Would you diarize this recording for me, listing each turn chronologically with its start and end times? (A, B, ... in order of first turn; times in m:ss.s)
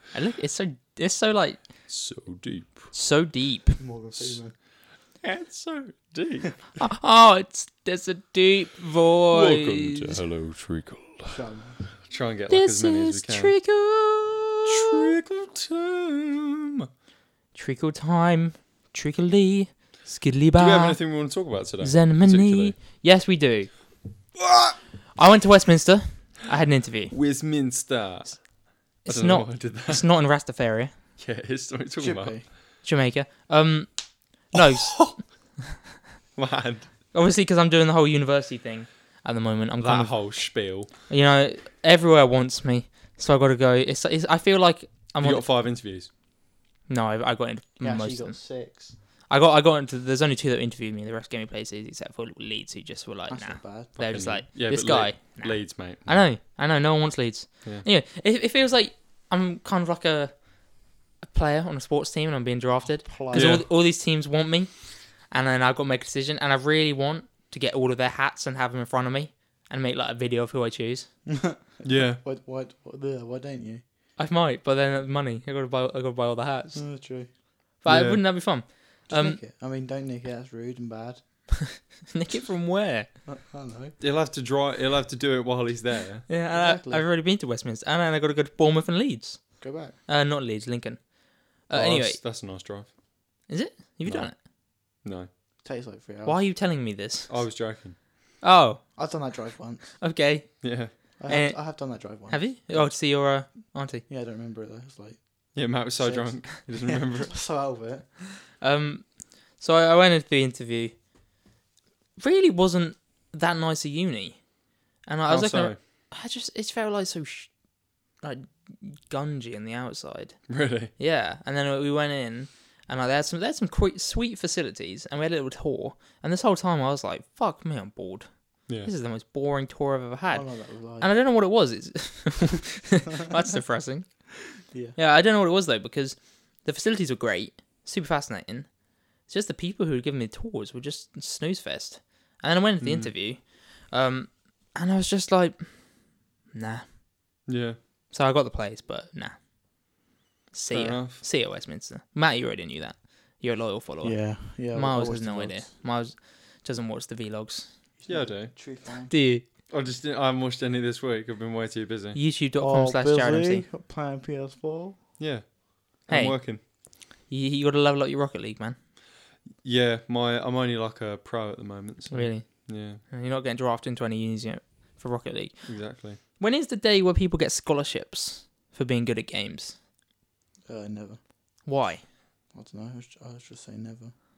0:00.1-0:01.6 A
0:01.9-0:02.9 B
0:02.9-0:03.8 A
0:03.8-0:04.5 C
0:04.2-0:04.4 B
0:05.2-0:06.6 B
0:06.8-0:10.2 A
0:09.3-0:11.4 B
0:11.3-0:11.8 C
0:12.0-0:13.6 B
0:12.5-0:15.1 A
0:14.7-0:16.9 B
0:17.5-0:23.7 A
0:20.6-0:22.8 B
0:24.4-0:24.8 B
0:25.2-0:27.2 A
0:27.1-0:30.0 B
0:29.0-0:30.9 A
0:31.2-0:32.4 B
0:32.0-0:32.5 C
0:32.8-0:35.2 A
0:34.9-0:35.2 B
0:36.4-0:36.9 B
0:37.1-0:40.3 A
0:39.8-0:40.9 B
0:41.1-0:45.5 A
0:45.2-0:46.1 B
0:46.9-0:48.4 A
0:47.8-0:48.9 C
0:49.3-1:00.5 A
0:53.3-0:54.0 C
0:54.0-0:56.3 B
1:01.2-1:11.1 A
1:03.0-1:03.6 C
1:03.3-1:03.7 B
1:11.3-1:13.8 C
1:11.8-1:12.2 B
1:14.2-1:17.0 A
1:16.8-1:17.3 C
1:17.8-1:19.4 A
1:17.9-1:18.2 B
1:19.1-1:21.4 C
1:22.1-1:23.1 A
1:23.3-1:24.0 C
1:24.0-1:26.3 B
1:26.3-1:32.2 A
1:26.5-1:27.0 C
1:29.6-1:30.0 C
1:31.7-1:32.9 B
1:33.5-1:34.4 A
1:34.1-1:34.3 B
1:35.0-1:35.3 B
1:35.6-1:36.4 C
1:36.2-1:37.4 A
1:37.3-1:38.0 B
1:38.4-1:38.8 A
1:39.0-1:40.0 C
1:40.0-1:44.0 A
1:40.6-1:40.9 B
1:41.2-1:43.0 C
1:44.1-1:48.1 C
1:45.6-1:47.3 B
1:48.6-1:51.0 A
1:52.2-1:54.4 A
1:55.1-1:57.5 A
1:55.3-1:55.8 B
1:58.2-2:00.4 A
2:00.5-2:00.9 B
2:01.0-2:14.3 A
2:10.3-2:11.1 C
2:14.7-2:15.0 C
2:15.0-2:26.9 A
2:22.8-2:23.1 B
2:27.5-2:27.8 B
2:28.1-2:29.4 A
2:30.5-2:37.8 A
2:30.7-2:31.2 B
2:34.0-2:35.7 C
2:38.0-2:39.1 C
2:38.1-2:39.0 B
2:39.1-2:39.5 A
2:39.7-2:42.2 B
2:42.2-2:43.6 A
2:42.6-2:45.0 C
2:45.2-2:46.6 B
2:46.1-2:46.6 A
2:47.3-2:48.8 A
2:49.6-2:53.0 B
2:52.1-2:59.8 A
2:55.7-2:56.2 B
3:00.7-3:01.2 C
3:01.6-3:02.0 A
3:02.5-3:04.2 C